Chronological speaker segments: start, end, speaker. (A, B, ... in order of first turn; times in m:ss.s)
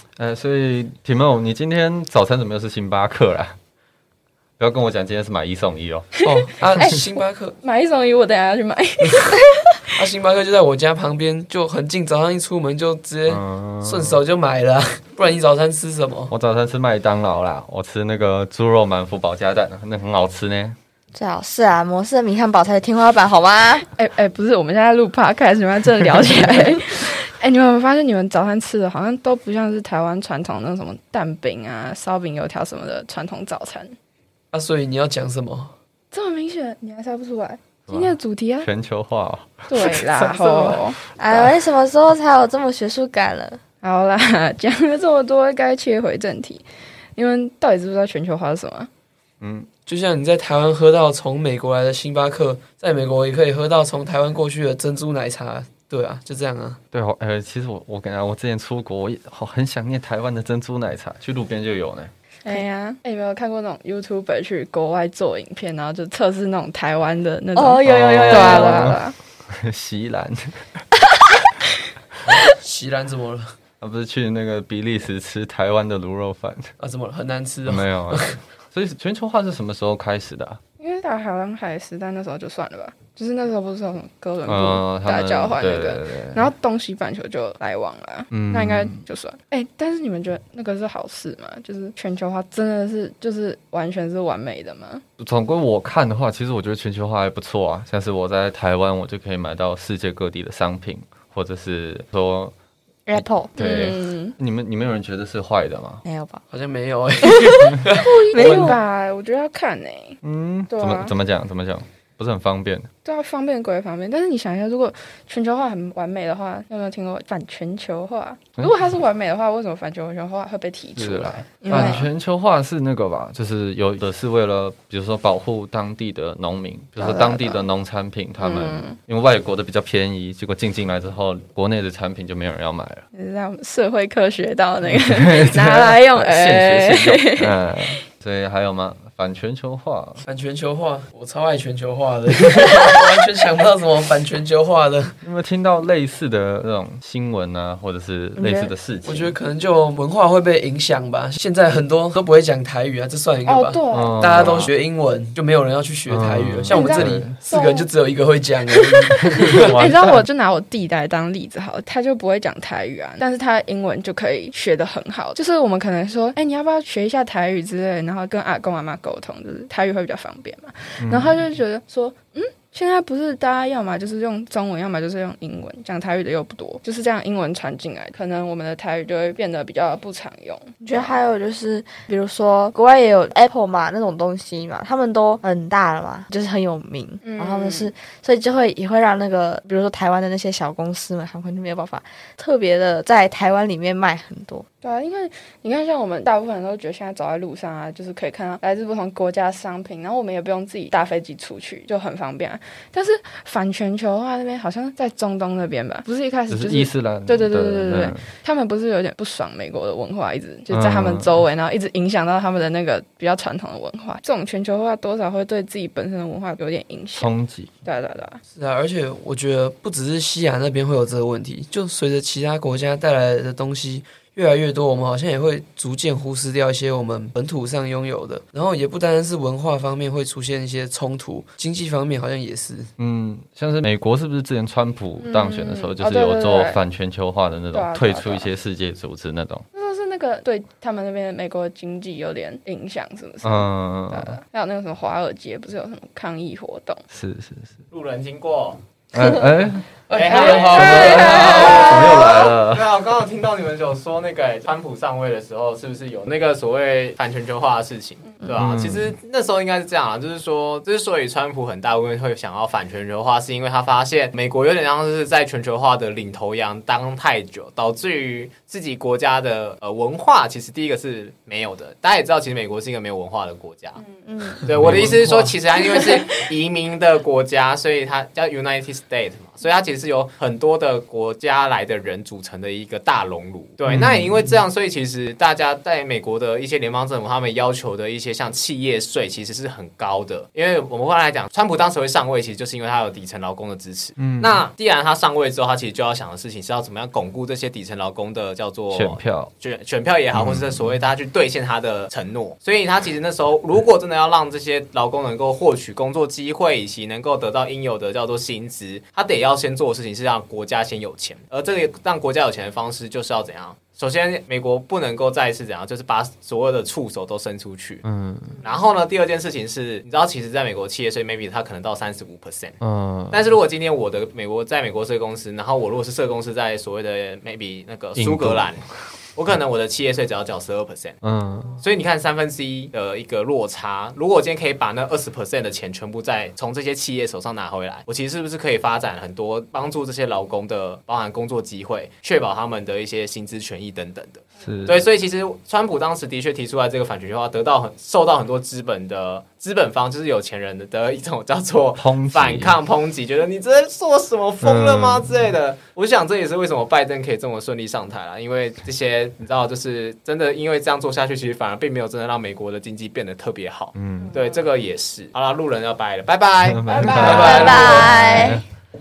0:00.2-0:03.5 A
0:04.6-0:06.1 A
0:06.2-0:07.6 B
0:06.3-0:09.7 C
0:09.9-0:16.3 B
0:13.3-0:14.2 A
0:16.3-0:20.8 A
0:21.1-0:23.9 D
0:23.9-0:33.9 C
0:34.5-0:35.7 B
0:36.1-0:38.7 C
0:37.9-0:40.1 A
0:39.7-0:41.0 C
0:41.2-0:43.6 D
0:43.8-0:48.9 C
0:49.4-0:49.7 A
0:49.8-0:56.8 B
0:56.9-1:02.1 A
1:02.4-1:09.1 C
1:07.5-1:08.9 D
1:07.8-1:10.6 A
1:12.3-1:13.5 B
1:13.8-1:16.7 A
1:16.8-1:18.4 B
1:17.6-1:20.6 A
1:20.8-1:35.0 C
1:24.4-1:26.4 A
1:28.3-1:29.0 A
1:35.2-1:42.5 A
1:43.1-1:43.6 D
1:43.1-1:46.0 A
1:43.5-1:44.3 C
1:46.0-1:46.4 D
1:46.5-1:48.8 B
1:47.2-1:48.8 D
1:48.0-1:51.1 C
1:50.2-1:52.9 A
1:53.0-2:02.1 C
2:01.0-2:13.0 A
2:07.0-2:07.6 C
2:08.4-2:09.0 C
2:13.1-2:17.6 C
2:15.0-2:20.2 A
2:20.2-2:25.2 B
2:25.2-2:29.3 A
2:29.0-2:39.8 B
2:33.4-2:34.6 C
2:33.9-2:34.7 A
2:36.1-2:37.4 A
2:36.7-2:37.9 C
2:39.3-3:01.1 C
2:39.5-2:40.2 A
2:51.0-2:51.4 A
3:00.8-3:14.6 D
3:07.2-3:07.9 C
3:14.8-3:37.3 C
3:26.5-3:28.3 A
3:30.7-3:31.3 A
3:37.1-3:37.7 A
3:37.8-3:38.4 C
3:38.5-3:52.9 B
3:53.0-3:59.6 A
3:55.2-3:56.8 C
3:57.7-3:58.5 C
3:59.7-4:07.0 C
4:03.4-4:04.4 A
4:07.1-4:07.8 A
4:07.9-4:08.8 E
4:09.1-4:09.9 A
4:10.1-4:11.8 B
4:10.1-4:34.0 E
4:10.3-4:12.3 C
4:10.8-4:12.9 A
4:18.4-4:19.2 A
4:34.2-4:34.6 C
4:34.6-5:18.0 E
4:34.6-4:35.5 B
4:43.9-4:44.4 A
4:54.2-4:54.6 A
4:58.9-4:59.5 A
5:00.3-5:00.9 A
5:18.0-5:18.6 A
5:18.6-5:22.8 E
5:22.8-5:23.4 A
5:23.3-5:28.8 E
5:28.1-5:28.7 A
5:29.3-5:31.2 E
5:31.2-5:31.8 A
5:31.8-6:08.2 E
5:44.6-5:45.0 A
5:51.9-5:52.8 A
5:54.6-5:55.5 A
6:03.9-6:04.4 A
6:06.6-6:08.6 A
6:06.9-6:08.3 C
6:07.2-6:07.6 B
6:07.3-6:08.6 D